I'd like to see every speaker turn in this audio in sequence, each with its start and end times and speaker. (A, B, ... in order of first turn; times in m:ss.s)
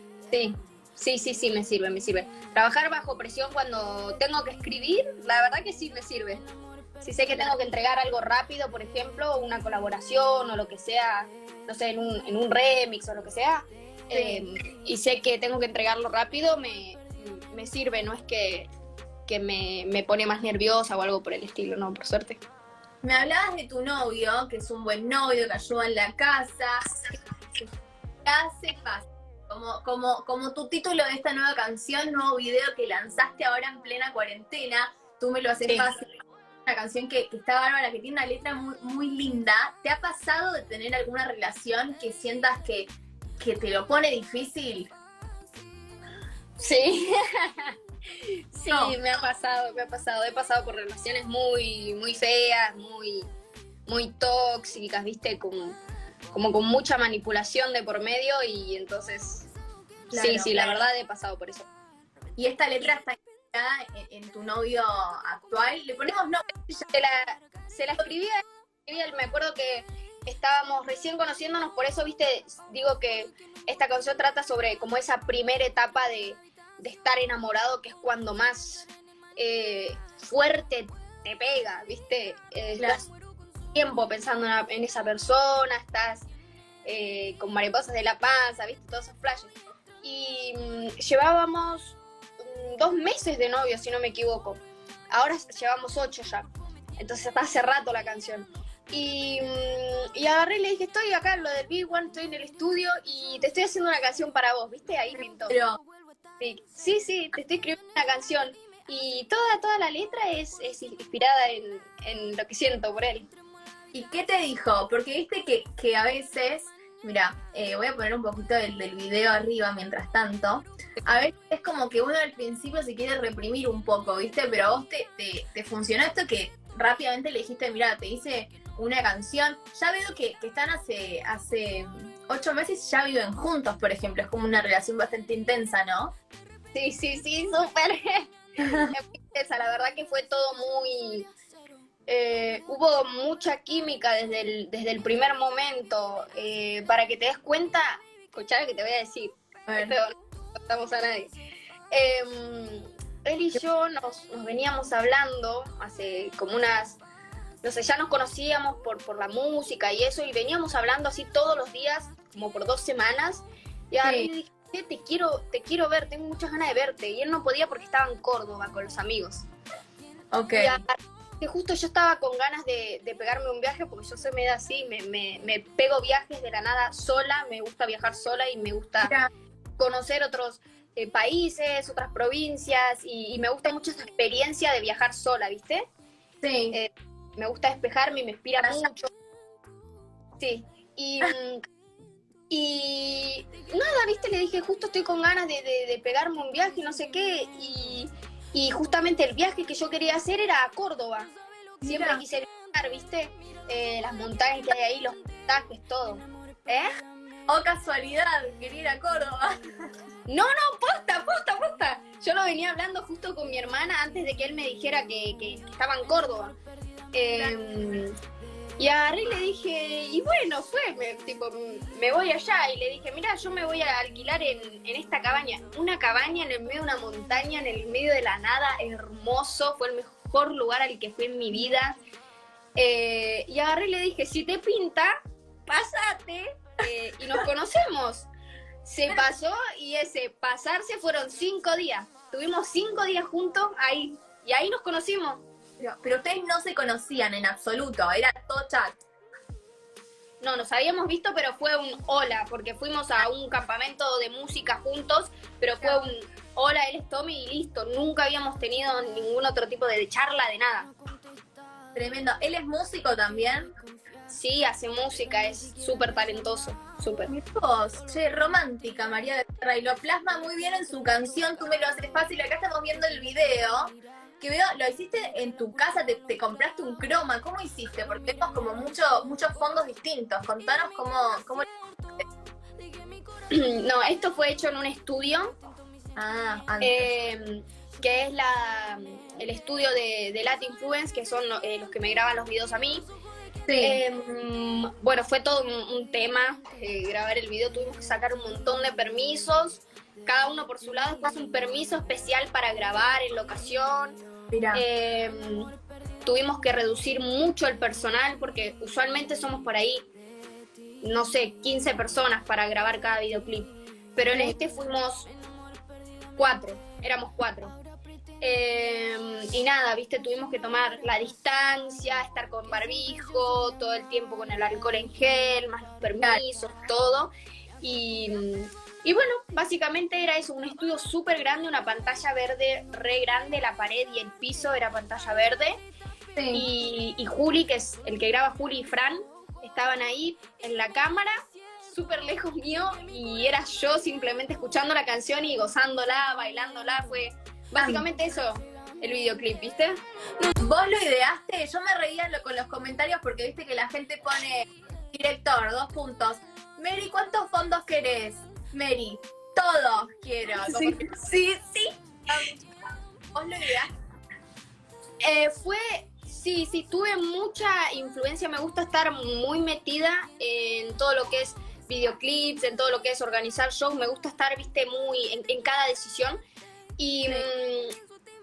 0:00.3-0:06.4 A
0:07.0-0:18.7 A
0:14.1-0:14.4 B
0:19.3-0:22.4 A
0:23.0-0:26.8 B
0:28.2-0:36.0 B
0:36.6-0:42.9 B
0:43.4-0:44.9 B
0:46.6-0:53.2 A
0:48.7-0:49.0 B
0:53.8-0:55.8 A
0:56.3-0:59.5 A
1:00.1-1:00.8 B
1:00.1-1:01.7 A
1:02.4-1:06.5 B
1:06.7-1:23.1 A
1:23.7-1:26.3 A
1:26.8-1:34.6 A
1:35.1-1:45.6 A
1:45.5-1:45.8 B
1:46.4-1:53.3 A
1:53.9-2:16.2 B
2:16.7-2:21.3 A
2:18.6-2:18.9 B
2:22.1-2:31.3 A
2:29.7-2:29.9 B
2:31.9-2:37.0 A
2:37.6-2:49.4 A
2:44.0-2:44.3 B
2:50.3-2:50.8 B
2:50.5-2:59.1 A
2:59.0-2:59.3 B
2:59.8-3:05.8 A
3:06.4-3:06.8 B
3:06.7-3:09.1 A
3:08.6-3:08.8 B
3:10.4-3:11.6 A
3:12.5-3:26.9 A
3:21.8-3:22.2 B
3:27.5-3:29.5 B
3:30.3-3:36.6 A
3:37.1-3:38.1 A
3:38.8-3:52.0 A
3:52.8-3:55.1 A
3:55.7-3:58.3 A
3:58.8-4:05.4 A
4:05.8-4:09.0 B
4:10.4-4:20.9 A
4:21.9-4:23.7 B
4:24.3-4:27.3 A
4:27.3-4:41.7 B
4:43.5-4:45.6 A
4:46.2-4:47.1 B
4:46.8-4:53.0 A
4:53.7-4:54.0 B
4:53.8-5:04.2 A
5:04.5-5:04.8 B
5:04.7-5:05.7 A
5:06.2-5:10.1 A
5:11.0-5:15.3 A
5:14.3-5:14.5 B
5:16.4-5:17.8 A
5:18.4-5:35.8 A
5:36.4-5:36.6 B
5:36.5-5:41.3 A
5:41.8-5:50.0 A
5:47.8-5:48.0 B
5:50.6-6:01.2 B
6:00.5-6:02.4 A
6:02.3-6:02.5 B
6:03.3-6:03.9 B
6:05.2-6:16.4 A
6:17.0-6:17.9 A